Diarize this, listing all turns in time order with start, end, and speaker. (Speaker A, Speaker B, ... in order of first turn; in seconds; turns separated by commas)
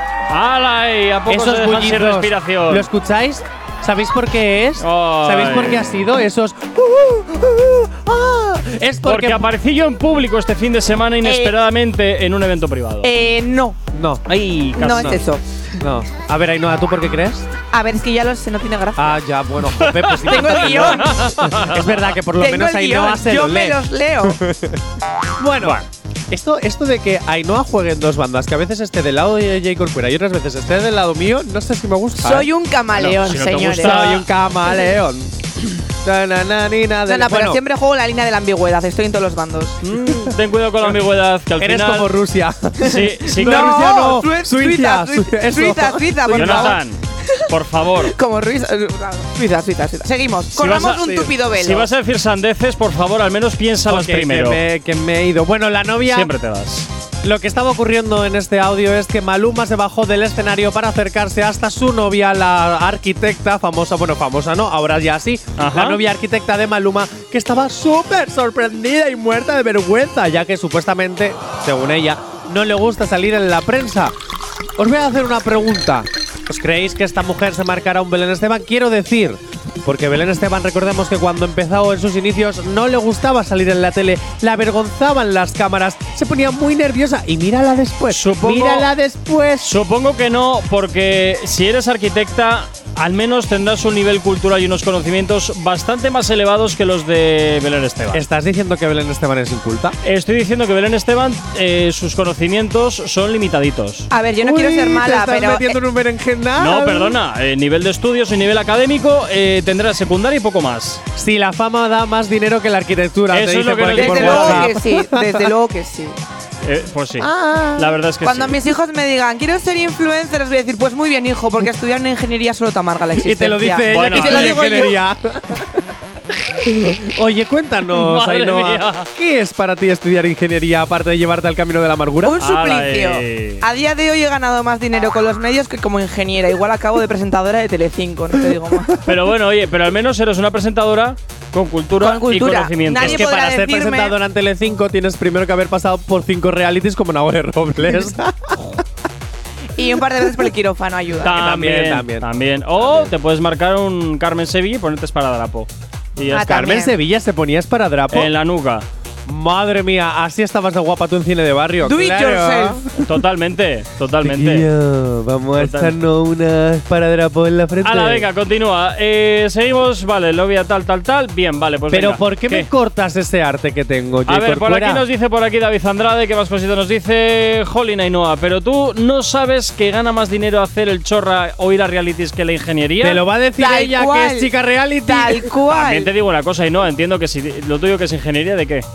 Speaker A: 0.3-2.9, Speaker B: 1.3-9.5, Speaker A: 4.8-6.1, Speaker A: 9.0-13.1, Speaker C: 11.2-11.6, Speaker C: 13.0-13.8, Speaker B: 13.9-14.2, Speaker A: 14.3-15.2, Speaker C: 14.8-15.4, Speaker B: 14.8-15.2, Speaker B: 15.8-17.5, Speaker C: 17.7-19.2, Speaker B: 18.9-24.8, Speaker A: 19.8-21.9, Speaker C: 20.2-21.2, Speaker C: 22.4-24.4, Speaker B: 25.4-37.6, Speaker C: 32.2-34.1, Speaker A: 33.0-34.3, Speaker C: 37.1-39.8, Speaker A: 39.8-42.1, Speaker B: 41.6-46.8, Speaker A: 42.8-43.9, Speaker C: 42.9-46.8, Speaker A: 46.3-48.1, Speaker C: 48.0-51.9, Speaker A: 50.5-54.6, Speaker B: 53.9-56.3, Speaker A: 56.1-56.9, Speaker B: 57.2-74.1, Speaker A: 65.6-66.0, Speaker B: 74.8-89.7, Speaker A: 88.1-88.9, Speaker A: 89.6-98.2, Speaker B: 98.1-99.9, Speaker A: 100.0-104.1, Speaker C: 104.1-105.8, Speaker B: 104.4-107.2, Speaker A: 106.6-111.0, Speaker B: 111.2-115.5, Speaker A: 113.3-114.7, Speaker C: 113.9-116.2, Speaker A: 116.6-118.6, Speaker B: 117.2-118.0, Speaker C: 118.2-125.0, Speaker B: 123.2-125.8, Speaker A: 123.9-124.8, Speaker B: 126.5-132.4, Speaker A: 127.9-129.1, Speaker C: 132.2-138.9, Speaker A: 132.4-133.6, Speaker A: 139.0-143.2, Speaker C: 142.0-144.1, Speaker B: 142.9-148.8, Speaker C: 149.8-151.3, Speaker A: 151.2-156.7, Speaker B: 151.2-153.1, Speaker C: 156.3-156.9, Speaker B: 156.3-158.3, Speaker A: 158.1-158.8, Speaker B: 159.2-163.1, Speaker C: 161.8-162.8, Speaker A: 163.0-164.7, Speaker B: 164.2-168.3, Speaker A: 165.6-165.9, Speaker A: 167.8-172.7, Speaker B: 171.9-175.0, Speaker A: 174.3-183.2, Speaker B: 183.0-185.5, Speaker C: 183.6-184.5, Speaker C: 185.0-186.1, Speaker A: 185.7-188.8